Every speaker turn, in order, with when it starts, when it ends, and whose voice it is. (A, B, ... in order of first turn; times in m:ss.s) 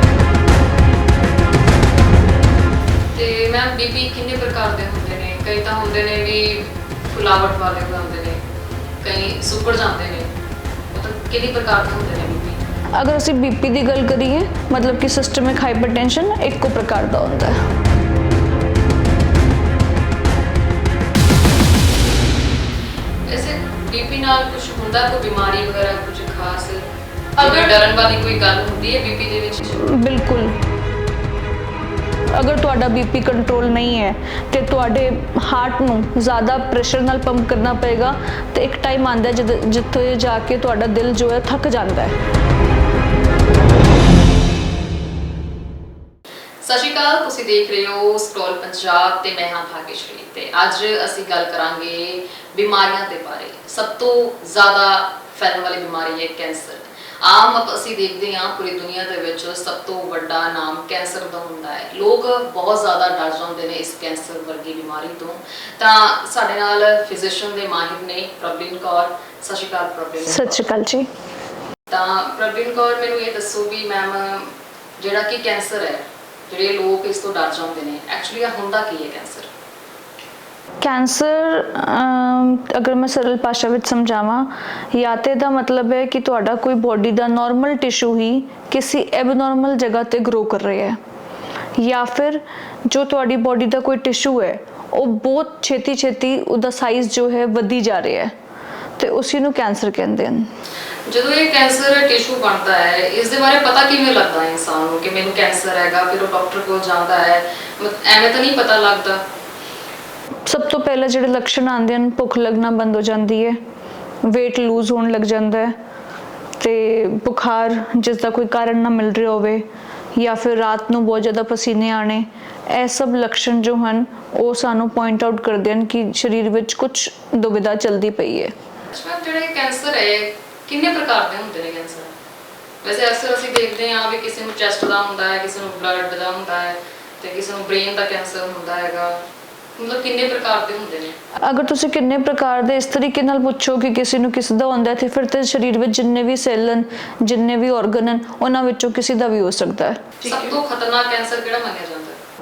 0:03.1-0:08.4 A
0:09.0-0:10.3 A
0:10.9-0:12.6 A
0:13.0-0:17.6 B
0:23.2-0:26.8 A
0:27.4-0:29.8 A
0:27.4-0:27.7 B
0:29.8-0:30.6 B
0:32.3-0:42.2 B
0:46.6-1:10.7 A
1:10.3-1:11.1 B
1:11.9-1:19.5 A
1:20.8-1:31.0 B
1:31.8-1:38.3 B
1:39.0-1:40.5 B
1:41.1-1:49.2 A
1:50.5-1:53.6 B
1:54.2-1:55.8 B
1:56.6-1:59.6 B
2:00.2-2:08.5 B
2:08.9-2:12.1 A
2:12.8-2:19.2 A
2:19.8-2:21.2 A
2:21.4-2:30.4 B
2:30.2-2:32.2 A